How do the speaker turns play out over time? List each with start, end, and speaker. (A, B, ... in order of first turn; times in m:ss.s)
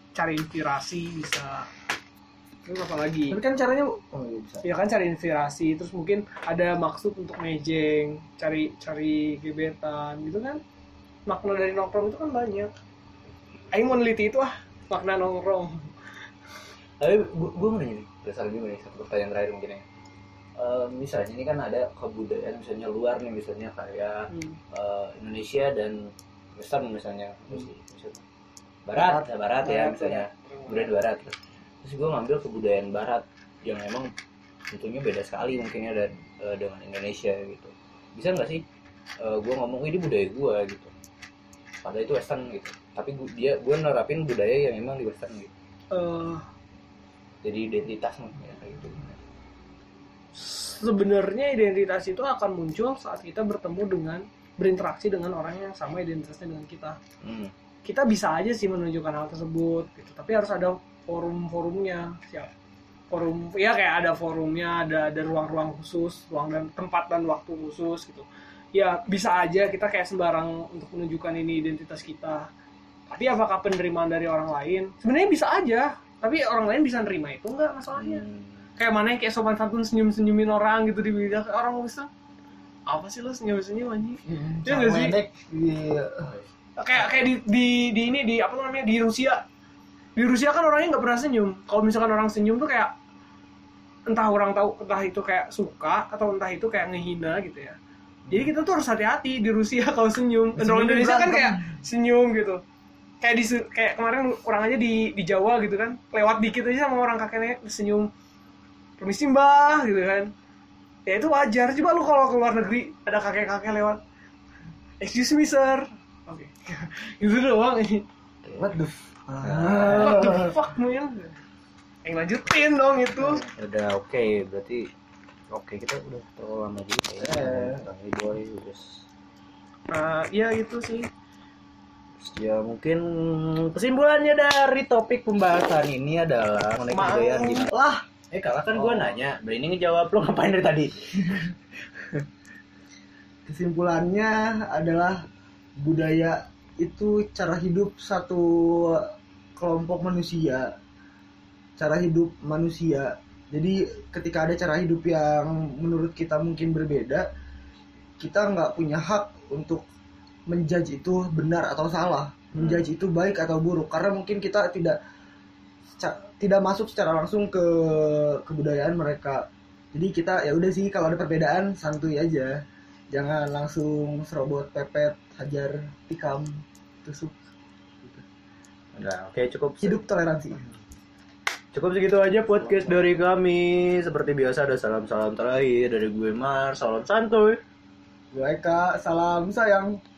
0:00.1-0:01.7 A
0:02.6-0:03.4 A
0:03.3-0:04.6 B
0:04.6-0:10.6 A
0:11.3-0:12.7 A
0:13.7-0:15.8 A
0:17.0-0:19.8 C
0:20.6-0:28.2 C
0:24.3-0:24.6 A
0:28.8-0:34.1 C
0:29.0-0:29.2 B
0:29.7-0:30.9 A
0:34.7-0:38.6 C
0:39.2-0:40.9 C
0:41.8-0:45.5 C
0:45.9-0:46.4 A
0:47.4-0:49.2 C
0:50.4-0:57.0 A
0:57.2-0:57.5 C
0:57.8-1:02.5 A
1:03.1-1:12.5 A
1:13.1-1:18.2 A
1:18.0-1:18.5 C
1:18.8-1:22.1 A
1:22.9-1:25.1 A
1:24.2-1:26.3 B
1:26.8-1:29.4 A
1:30.2-1:32.9 A
1:34.1-1:37.8 A
1:38.3-1:42.6 A
1:40.6-1:41.7 B
1:43.2-1:48.1 A
1:49.0-1:50.3 A
1:51.0-1:54.0 A
1:55.0-1:58.0 A
1:58.4-1:58.7 C
1:58.6-2:00.5 B
1:59.4-2:00.3 C
1:59.9-2:01.4 A
2:02.0-2:03.4 A
2:03.6-2:04.9 C
2:05.5-2:09.0 C
2:07.2-2:07.9 B
2:09.9-2:11.1 A
2:12.2-2:17.7 C
2:16.9-2:17.7 A
2:17.7-2:18.0 B
2:18.3-2:21.5 C
2:18.7-2:19.2 B
2:23.4-2:25.2 B
2:25.8-2:29.0 B
2:29.6-2:30.7 B
2:31.8-2:37.2 B
2:38.2-2:39.8 B
2:40.5-2:45.0 B
2:46.0-2:52.6 B
2:53.1-2:57.4 B
2:58.9-3:00.0 C
2:59.8-3:00.6 B
3:01.7-3:07.6 C
3:02.6-3:02.9 B
3:08.3-3:09.9 B